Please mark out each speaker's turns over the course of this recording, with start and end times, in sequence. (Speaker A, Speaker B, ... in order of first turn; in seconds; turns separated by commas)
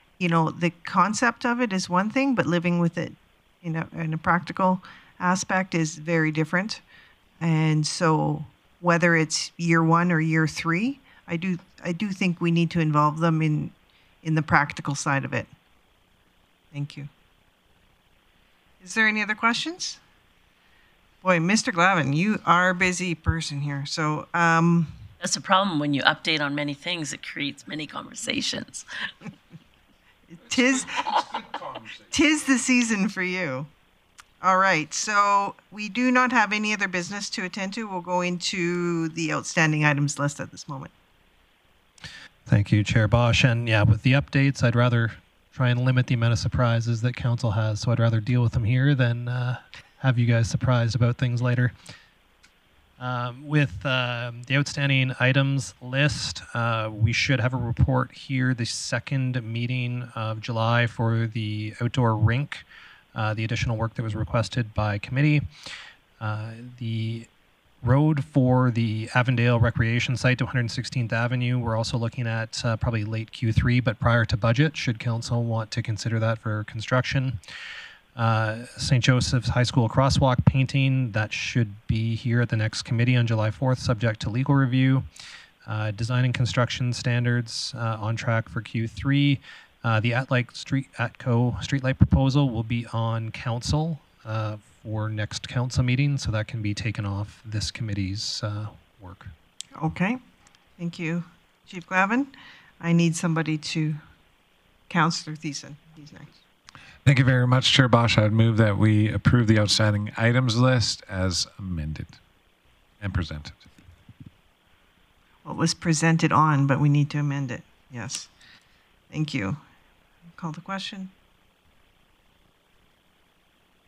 Speaker A: 0.2-6.8, Speaker A: 7.4-15.5, Speaker A: 16.7-17.1, Speaker A: 18.8-20.0, Speaker A: 21.2-25.0, Speaker B: 25.2-28.9, Speaker A: 30.3-33.7, Speaker A: 34.4-40.9, Speaker C: 42.5-51.7, Speaker C: 53.0-65.5, Speaker C: 66.2-67.3, Speaker C: 67.8-77.4, Speaker C: 78.1-85.1, Speaker C: 85.6-99.3, Speaker A: 99.8-100.2, Speaker A: 100.8-104.0, Speaker A: 104.9-106.4, Speaker D: 107.0-112.2, Speaker D: 113.0-113.6, Speaker A: 115.4-118.3, Speaker A: 119.1-119.6, Speaker A: 120.4-121.1